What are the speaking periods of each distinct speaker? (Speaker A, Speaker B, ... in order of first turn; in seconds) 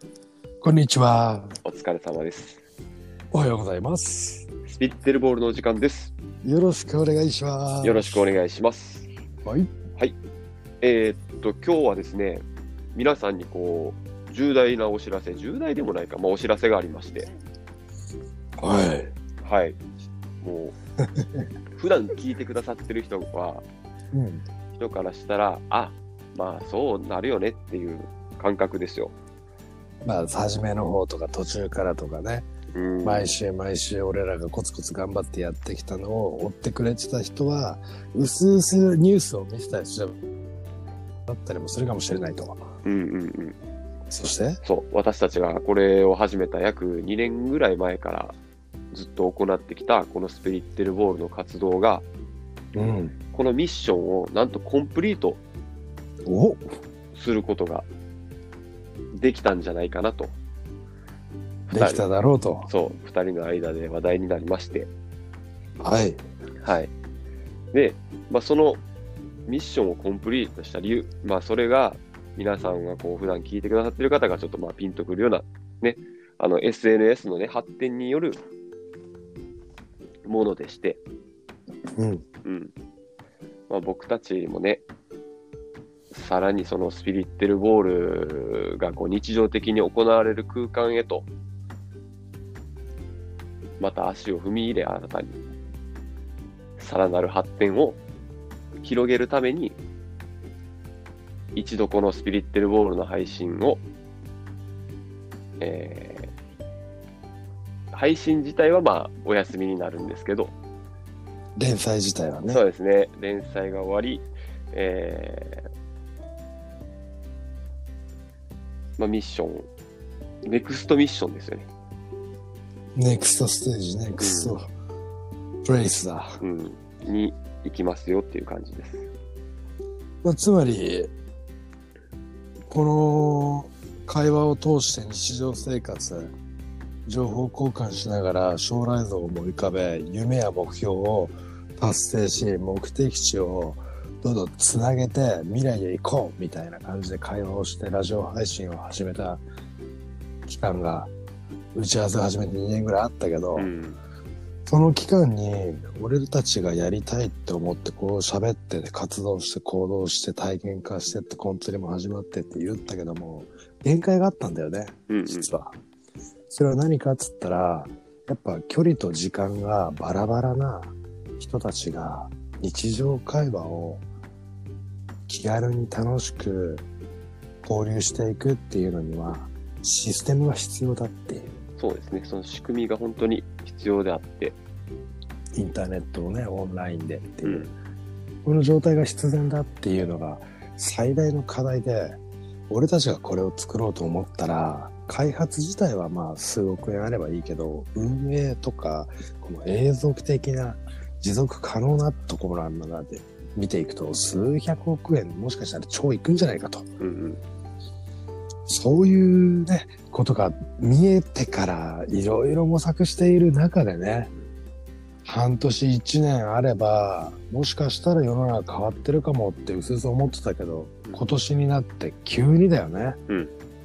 Speaker A: 0.6-1.6, 3.3-4.5, 6.4-8.2, 9.4-9.7, 18.6-19.1, 24.1-24.4, 30.1-32.5, 33.0-40.2, 41.3-42.7, 44.1-44.6, 52.7-53.1, 56.3-56.7, 61.7-62.7, 65.8-66.2, 82.0-82.2, 111.6-112.6, 123.0-124.7, 125.6-126.4, 130.2-131.1, 132.7-136.3, 137.1-149.4, 150.5-151.1, 151.8-153.7, 154.7-165.8, 166.5-174.0, 175.3-176.8, 177.6-181.6, 185.5-187.7, 188.4-192.2, 192.7-206.9, 208.7-214.3, 215.2-223.2
Speaker B: 1.6-2.6, 4.7-6.1, 7.8-9.1, 10.8-12.4, 12.9-17.3, 19.4-19.8, 20.4-20.7, 21.8-23.6, 24.7-29.1, 32.7-33.3, 42.8-43.6, 44.6-48.4, 48.9-52.0, 53.3-55.4, 57.1-57.9, 59.1-60.4, 61.7-62.1, 62.7-64.9, 66.6-66.9, 67.7-68.8, 69.5-78.4, 80.2-81.0, 82.4-82.7, 83.7-84.8, 86.1-91.3, 93.8-95.4, 96.8-98.0, 98.8-99.8, 101.5-103.8, 105.6-106.3, 107.9-110.5, 112.5-115.7, 119.0-119.7, 120.5-121.7, 124.2-124.6, 126.4-129.1, 153.6-154.0, 165.1-165.5, 181.8-184.6, 187.4-187.7, 207.0-207.4